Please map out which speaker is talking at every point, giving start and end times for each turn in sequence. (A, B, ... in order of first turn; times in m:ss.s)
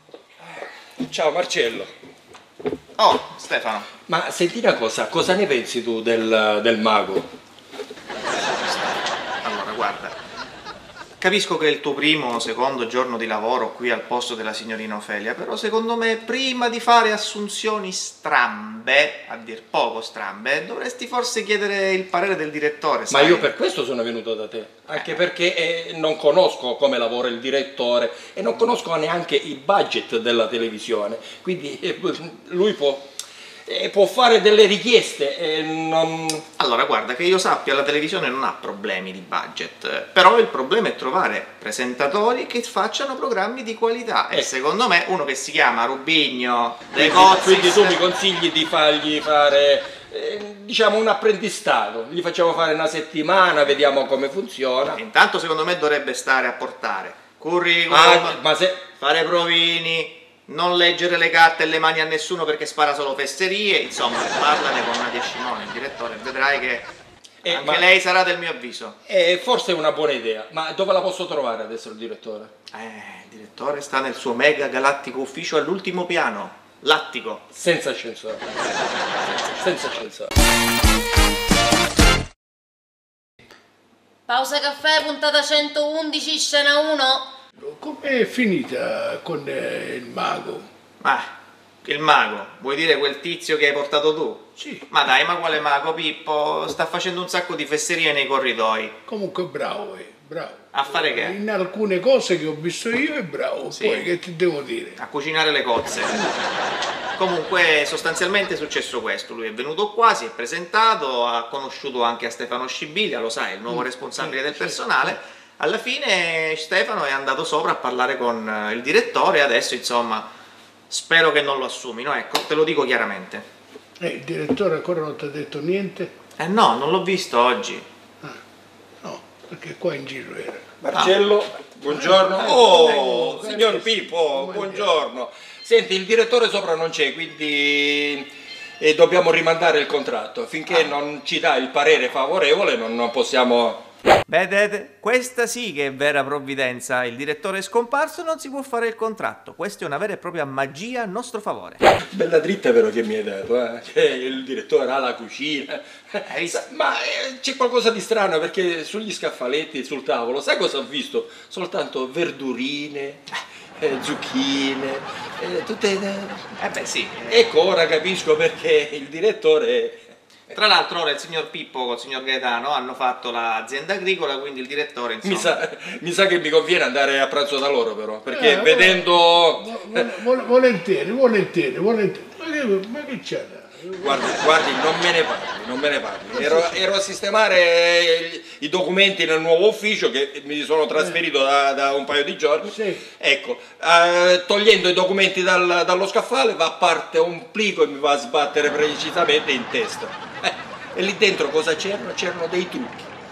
0:00.4-0:01.9 A
0:03.0-0:03.9 B
0:04.1-0:07.3 A
0:08.3-0:10.2 B
0:11.2-0:23.5 B
0:23.1-0:33.1 A
0:24.9-0:25.3 B
0:33.7-0:36.4 A
0:36.6-0:48.0 B
0:46.9-0:55.0 A
0:55.0-0:58.4 B
0:57.9-0:58.8 A
0:59.0-1:06.9 B
1:07.4-1:07.9 A
1:07.5-1:09.0 B
1:09.1-1:12.5 A
1:12.7-1:17.4 B
1:17.5-1:18.5 A
1:19.3-1:20.3 A
1:24.3-1:27.3 C
1:27.6-1:30.7 D
1:31.0-1:31.3 B
1:31.8-1:39.0 B
1:34.6-1:34.9 D
1:39.1-1:45.0 D
1:40.7-1:41.4 B
1:43.7-1:44.1 B
1:45.0-1:46.3 B
1:47.2-2:00.3 B
1:53.7-1:55.2 D
2:00.9-2:03.4 B
2:04.0-2:06.1 D
2:06.4-2:07.8 B
2:09.0-2:10.7 D
2:10.8-2:23.8 A
2:10.9-2:11.2 B
2:11.9-2:15.0 D
2:20.7-2:21.0 B
2:24.3-2:31.8 B
2:32.1-2:46.6 A
2:36.3-2:36.7 B
2:46.6-2:47.5 B
2:47.3-2:50.1 A
2:50.5-2:55.6 B
2:55.2-3:00.2 A
2:58.3-3:04.6 D
3:04.0-3:23.1 A
3:06.3-3:06.8 D
3:11.0-3:11.2 D
3:12.7-3:13.1 D